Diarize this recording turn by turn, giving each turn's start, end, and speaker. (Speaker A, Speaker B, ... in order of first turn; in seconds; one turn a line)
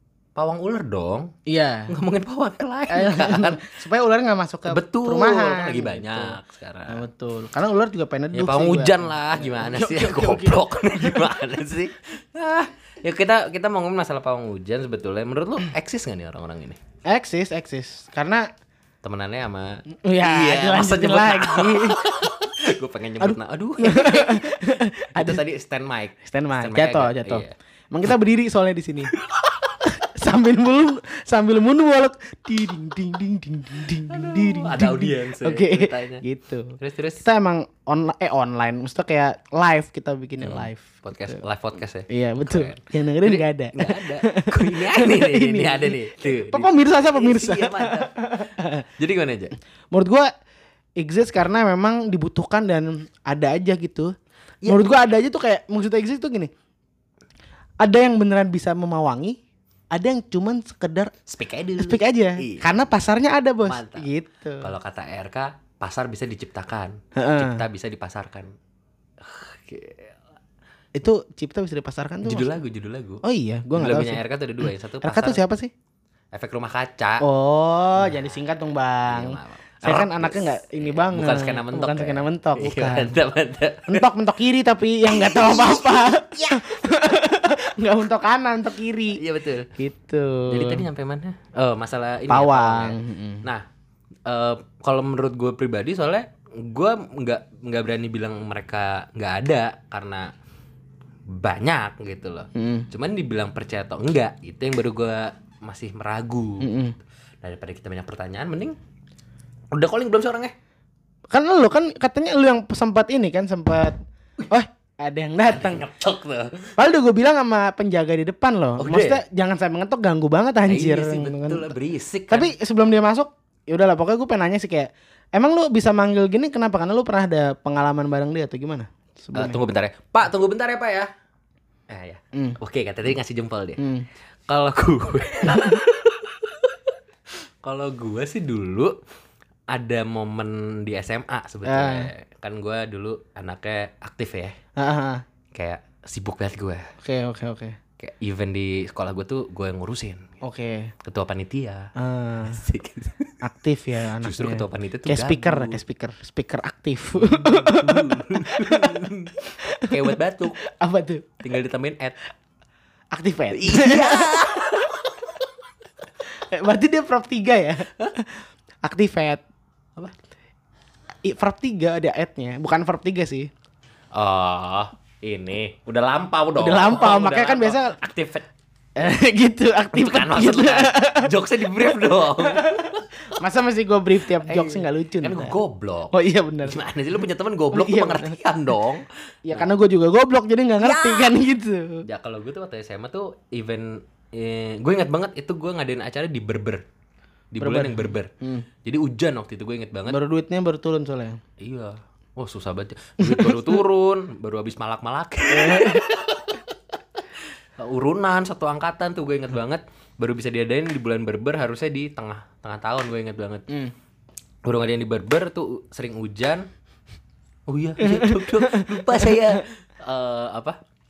Speaker A: 0.3-1.3
Speaker B: 1.5-1.9
Speaker A: 1.9-3.7
Speaker B: 2.9-6.4
Speaker A: 4.7-7.0
Speaker B: 6.9-11.3
Speaker A: 8.3-16.8
Speaker B: 17.1-18.5
Speaker A: 19.0-27.6
Speaker B: 20.0-22.3
Speaker B: 23.2-25.4
Speaker B: 26.2-29.1
Speaker B: 29.8-41.4
Speaker A: 34.1-36.2
Speaker A: 36.8-37.2
Speaker A: 40.4-48.2
Speaker B: 42.1-48.8
Speaker A: 49.0-49.5
Speaker B: 49.9-50.3
Speaker B: 51.0-54.1
Speaker A: 54.6-55.0
Speaker B: 54.6-56.5
Speaker B: 57.8-59.4
Speaker B: 59.9-61.1
Speaker A: 61.3-62.8
Speaker B: 61.8-64.7
Speaker A: 63.6-64.1
Speaker A: 64.6-68.5
Speaker B: 67.2-67.6
Speaker A: 69.2-70.1
Speaker B: 70.9-72.5
Speaker A: 72.2-73.2
Speaker B: 73.2-75.7
Speaker A: 73.7-75.4
Speaker A: 76.3-77.2
Speaker B: 77.2-83.1
Speaker A: 78.0-78.3
Speaker A: 79.0-84.0
Speaker B: 83.9-89.2
Speaker A: 85.1-86.7
Speaker A: 89.1-89.7
Speaker B: 89.7-90.8
Speaker A: 90.5-93.6
Speaker B: 92.3-93.4
Speaker A: 94.3-100.3
Speaker A: 101.3-106.7
Speaker B: 102.5-102.9
Speaker B: 106.6-107.0
Speaker A: 107.4-108.8
Speaker A: 109.7-110.5
Speaker B: 111.3-114.0
Speaker B: 114.5-115.8
Speaker A: 115.5-116.7
Speaker B: 116.8-121.7
Speaker A: 118.8-119.2
Speaker A: 120.7-122.5
Speaker B: 122.3-129.6
Speaker A: 129.3-131.1
Speaker A: 131.9-133.8
Speaker B: 132.3-132.6
Speaker B: 133.8-134.1
Speaker A: 134.5-136.8
Speaker A: 137.6-138.9
Speaker A: 139.7-144.6
Speaker B: 141.6-142.1
Speaker B: 144.8-145.2
Speaker A: 145.5-146.9
Speaker B: 147.0-147.8
Speaker A: 148.0-150.3
Speaker B: 150.4-150.9
Speaker A: 151.0-151.9
Speaker B: 151.9-152.6
Speaker A: 152.4-153.4
Speaker B: 153.4-161.3
Speaker A: 154.2-155.8
Speaker A: 157.1-160.6
Speaker A: 161.4-162.2
Speaker B: 163.1-165.3
Speaker A: 163.5-164.9
Speaker B: 166.3-169.4
Speaker B: 171.2-173.5
Speaker A: 174.1-178.5
Speaker B: 176.6-178.0
Speaker B: 178.9-181.3
Speaker A: 179.9-183.3
Speaker B: 182.4-185.6
Speaker A: 184.3-189.7
Speaker B: 186.1-186.8
Speaker B: 187.7-188.4
Speaker B: 189.4-192.0
Speaker A: 190.8-191.4
Speaker A: 192.0-196.8
Speaker A: 197.5-198.3
Speaker B: 197.6-198.7
Speaker A: 198.8-200.2
Speaker B: 200.1-201.4
Speaker A: 201.6-206.5
Speaker B: 203.2-203.8
Speaker B: 205.5-206.1
Speaker A: 207.8-213.7
Speaker A: 214.6-216.7
Speaker A: 217.7-220.8
Speaker B: 218.0-219.6